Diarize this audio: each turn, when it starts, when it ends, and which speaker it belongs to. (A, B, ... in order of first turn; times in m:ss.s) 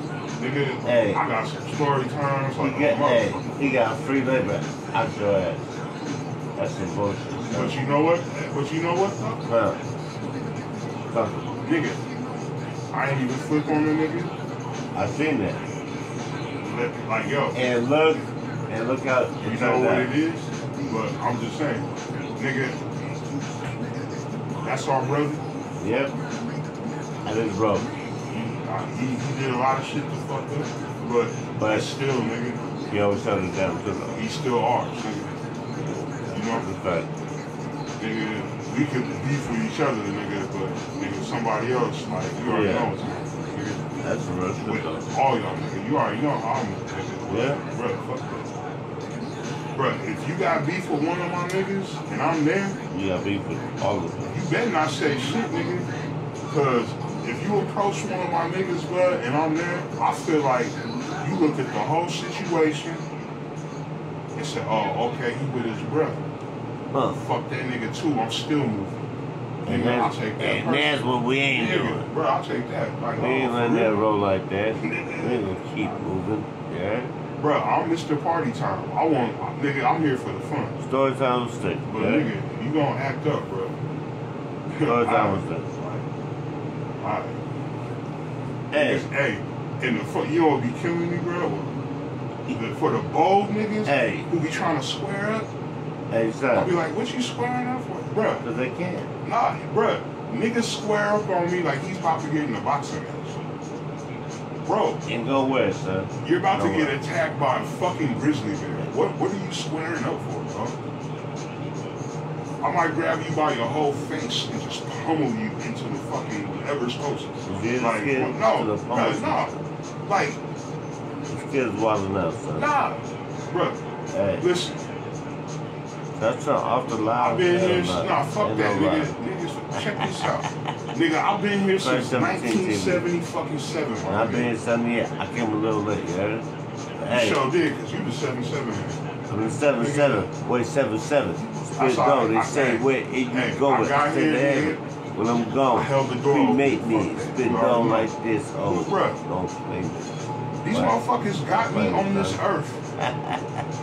0:00.4-0:03.5 A
0:00.8-0:01.2 B
0:02.6-0:05.7 B
0:06.6-0:07.8 B
0:07.5-0:09.4 A
0:09.4-0:09.8 B
0:11.1-0:11.5 B
0:11.6-0:12.0 A
0:12.9-0:14.3 A
0:14.9-0:15.6 B
0:16.6-0:17.6 A
0:17.6-0:20.1 B
0:19.4-0:22.8 A
0:24.6-0:25.4 A
0:25.8-0:26.1 B
0:27.2-0:27.9 B
0:28.3-0:32.7 A
0:31.6-0:31.9 B
0:32.9-0:34.2 B
0:34.2-0:35.3 A
0:35.8-0:37.1 B
0:36.3-0:36.7 A
0:38.0-0:44.0 A
0:42.5-0:42.9 B
0:44.0-0:45.1 B
0:44.6-0:48.5 A
0:47.3-0:47.6 B
0:49.7-0:52.8 A
0:52.9-0:54.4 B
0:54.3-0:55.9 A
0:56.4-1:03.1 A
1:04.4-1:06.2 A
1:06.9-1:07.2 B
1:07.1-1:09.0 A
1:09.6-1:12.1 B
1:09.7-1:11.0 A
1:11.5-1:14.0 A
1:13.2-1:17.1 B
1:14.8-1:16.0 A
1:17.4-1:20.8 A
1:20.8-1:22.3 B
1:21.9-1:23.8 A
1:24.7-1:26.0 A
1:24.8-1:25.7 B
1:27.0-1:27.4 A
1:28.7-1:29.1 B
1:28.7-1:31.8 A
1:32.5-1:35.5 A
1:33.8-1:34.3 B
1:36.1-1:36.7 B
1:36.5-1:38.5 A
1:38.4-1:39.1 B
1:39.2-1:43.4 A
1:44.6-1:45.0 A
1:45.1-1:47.0 B
1:46.2-1:50.8 A
1:52.6-1:59.5 A
1:57.5-1:59.6 B
2:00.1-2:00.4 A
2:01.3-2:02.7 B
2:02.6-2:03.8 A
2:04.1-2:04.5 B
2:04.4-2:04.8 A
2:06.2-2:09.2 B
2:07.2-2:14.6 A
2:09.8-2:10.3 B
2:11.8-2:13.0 B
2:14.0-2:16.5 B
2:17.0-2:17.4 B
2:17.1-2:19.1 A
2:19.3-2:30.1 B
2:19.8-2:20.3 A
2:21.5-2:24.8 A
2:25.7-2:29.2 A
2:30.6-2:32.8 A
2:30.7-2:32.4 B
2:33.0-2:33.6 B